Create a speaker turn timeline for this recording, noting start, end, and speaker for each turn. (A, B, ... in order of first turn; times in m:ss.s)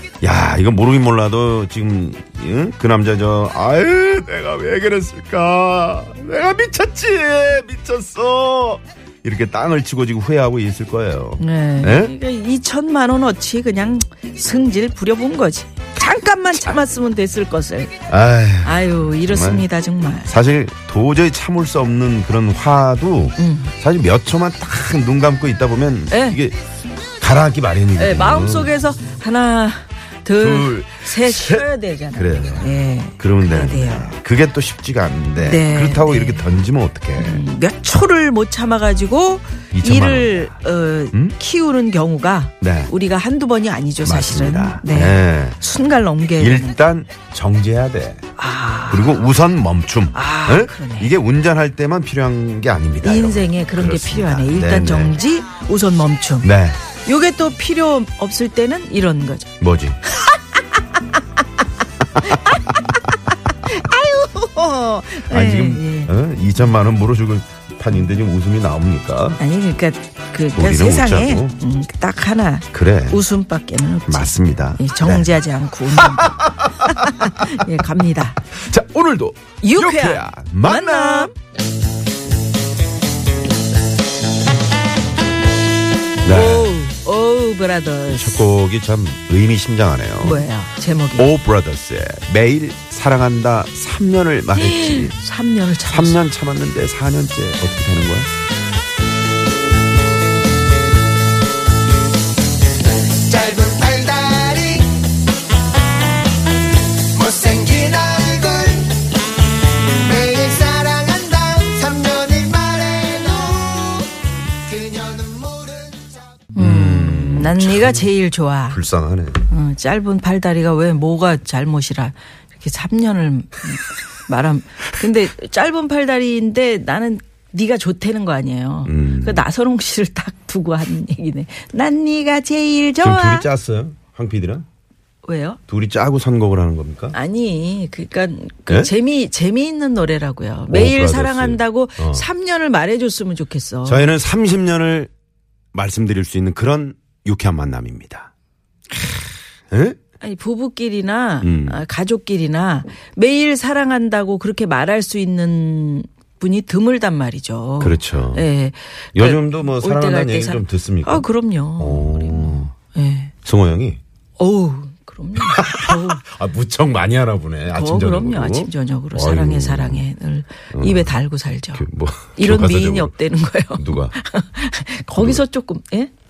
0:00.2-0:12.1 A
0:11.4-0:17.9 B
0:18.1-0:19.7 A
0:18.6-0:20.3 B
0:20.2-0:26.6 A
0:23.4-0:23.7 B
0:26.1-0:26.4 B
0:27.2-0:28.7 A
0:28.0-0:34.1 B
0:30.4-0:37.4 A
0:35.4-0:36.4 B
0:37.2-0:46.7 B
0:39.7-0:41.3 A
0:42.6-0:42.9 A
0:44.0-0:45.6 A
0:46.4-0:48.2 A
0:48.4-0:49.2 B
0:48.9-0:55.1 A
0:50.1-0:51.1 B
0:53.0-0:56.5 B
0:56.4-0:56.8 A
0:57.0-0:59.5 B
0:59.6-1:00.0 A
1:02.2-1:02.8 A
1:02.2-1:03.0 B
1:03.6-1:06.1 B
1:05.3-1:09.4 A
1:09.4-1:18.4 B
1:10.5-1:11.5 A
1:12.7-1:13.2 A
1:14.1-1:15.3 A
1:15.9-1:17.6 A
1:18.5-1:21.3 A
1:19.6-1:21.3 B
1:26.2-1:26.7 A
1:26.2-1:28.4 B
1:28.1-1:30.5 A
1:30.2-1:31.3 B
1:31.2-1:35.2 A
1:34.5-1:36.2 B
1:35.9-1:38.3 A
1:43.1-1:45.0 C
1:47.1-1:49.0 C
1:49.9-1:56.2 C
1:56.5-1:58.8 B
1:56.6-1:58.1 A
1:58.7-1:59.5 A
1:59.5-2:13.5 B
2:08.8-2:09.4 A
2:13.0-2:14.6 A
2:15.2-2:15.6 B
2:15.7-2:17.2 A
2:17.1-2:24.1 B
2:20.7-2:22.2 A
2:23.8-2:25.1 A
2:25.7-2:28.3 A
2:29.0-2:30.0 A
2:30.2-2:43.3 B
2:31.4-2:31.8 A
2:37.8-2:38.5 A
2:39.1-2:41.2 A
2:41.8-2:42.7 A
2:43.4-2:44.0 A
2:44.4-2:46.2 B
2:45.4-2:50.0 A
2:47.7-2:56.1 B
2:50.7-2:51.1 A
2:51.7-2:53.1 A
2:53.8-2:54.1 A